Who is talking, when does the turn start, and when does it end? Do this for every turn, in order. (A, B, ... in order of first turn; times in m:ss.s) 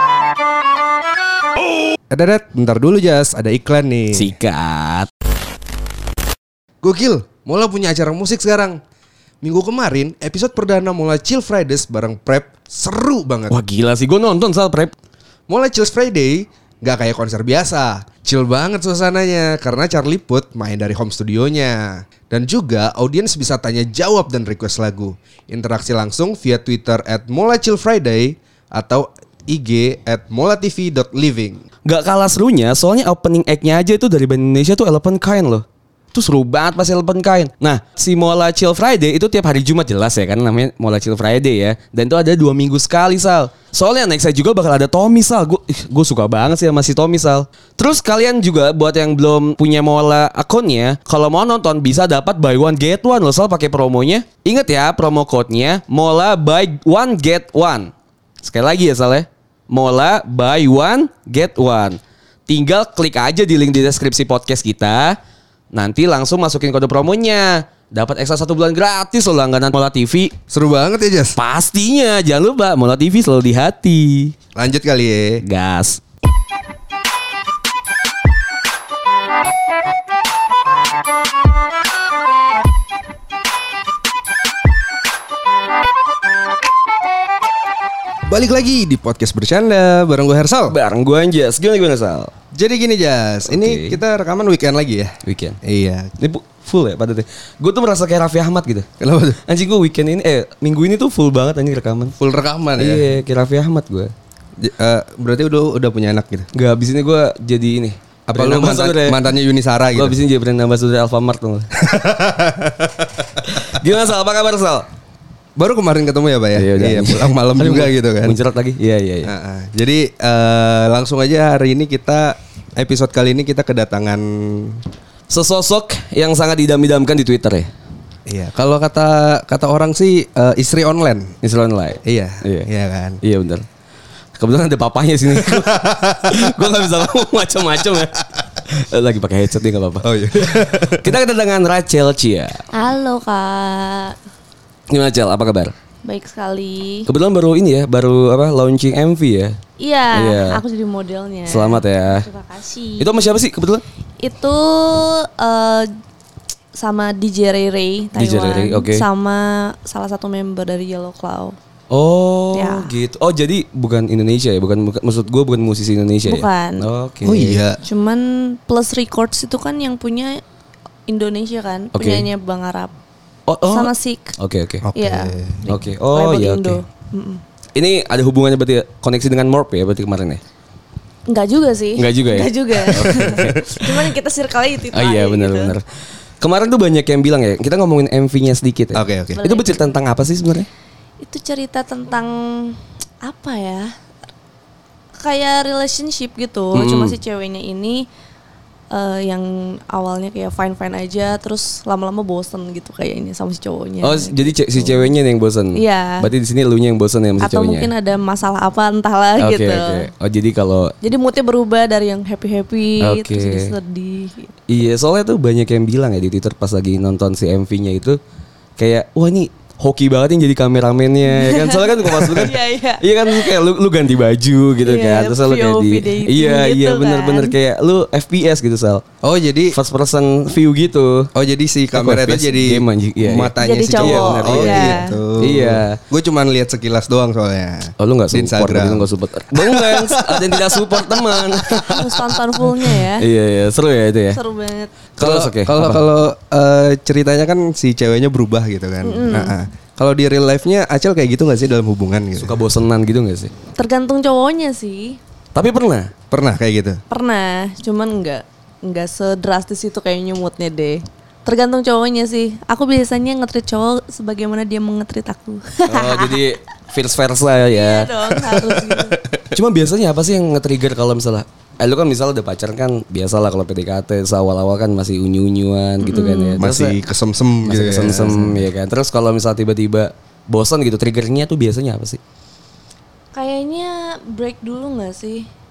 0:02.1-0:04.3 A
0:04.1-0:05.1 B
0:06.8-0:08.8 A
0:09.4-0:13.5 A
0:13.5-0:14.9 B
0:15.5-0:31.6 A
0:31.8-1:05.2 B
1:05.7-1:10.3 B
1:10.5-1:11.4 A
1:11.4-1:14.3 B
1:14.5-1:15.4 A
1:15.4-1:16.0 B
1:28.2-1:30.8 A
1:30.7-1:32.3 B
1:32.5-1:36.1 A
1:33.5-1:34.0 B
1:35.2-1:35.6 B
1:36.2-1:38.9 B
1:39.0-1:39.4 A
1:39.5-1:42.2 B
1:42.2-1:43.1 A
1:42.8-1:44.1 B
1:44.6-1:46.5 A
1:46.5-1:49.2 B
1:48.3-1:50.2 A
1:49.9-1:51.7 B
1:51.8-1:53.3 A
1:53.5-1:54.9 B
1:55.6-1:58.4 A
1:56.6-1:59.3 B
1:59.2-2:04.8 A
2:05.3-2:07.7 B
2:08.3-2:11.3 A
2:11.4-2:12.7 B
2:12.0-2:13.2 A
2:13.2-2:13.6 B
2:14.4-2:22.6 B
2:15.3-2:16.6 A
2:20.0-2:21.2 A
2:22.7-2:24.2 C
2:24.9-2:25.7 B
2:26.0-2:27.1 C
2:27.1-2:29.6 B
2:29.8-2:33.2 C
2:30.1-2:30.6 B
2:31.5-2:32.2 B
2:33.0-2:33.8 B
2:34.2-2:35.9 C
2:36.7-2:41.6 C
2:38.2-2:39.0 B
2:41.9-2:47.6 B
2:42.5-2:42.9 C
2:46.3-2:46.8 C
2:47.2-2:47.8 A
2:47.8-2:50.4 C
2:51.1-2:52.9 C
2:51.9-2:52.2 B
2:53.5-2:54.9 B
2:53.7-2:54.4 C
2:54.8-2:55.6 A
2:54.9-2:57.4 C
2:55.7-2:56.8 B
2:57.7-3:00.4 B
3:01.3-3:05.7 C
3:02.0-3:04.1 B
3:03.0-3:03.6 A
3:04.9-3:05.8 B
3:06.4-3:10.7 B
3:08.9-3:09.4 A
3:09.4-3:09.8 C
3:11.2-3:13.9 C
3:15.2-3:18.1 C
3:16.7-3:17.2 B
3:18.9-3:25.1 C
3:24.0-3:27.9 B
3:25.7-3:26.3 C
3:27.4-3:30.1 C
3:29.4-3:30.9 B
3:31.0-3:34.5 C
3:33.0-3:33.7 B
3:34.7-3:38.2 B
3:38.8-3:49.0 B
3:41.2-3:43.5 C
3:44.8-3:47.5 C
3:49.2-3:49.8 A
3:49.7-3:51.3 B
3:51.3-4:01.4 A
3:51.9-3:56.0 B
3:53.6-3:55.2 C
3:58.0-4:02.3 B
4:01.8-4:03.3 C
4:02.8-4:04.4 B
4:04.3-4:05.0 C
4:05.2-4:06.0 B
4:05.2-4:12.6 A
4:09.0-4:09.5 C
4:12.4-4:13.5 B
4:13.8-4:15.2 C
4:15.5-4:16.1 B
4:16.3-4:17.0 A
4:17.1-4:26.4 C
4:25.9-4:28.1 B
4:27.7-4:29.2 C
4:28.5-4:29.5 A
4:29.5-4:37.0 B
4:36.0-4:36.6 C
4:36.6-4:38.6 A
4:37.6-4:42.2 B
4:43.3-4:45.5 C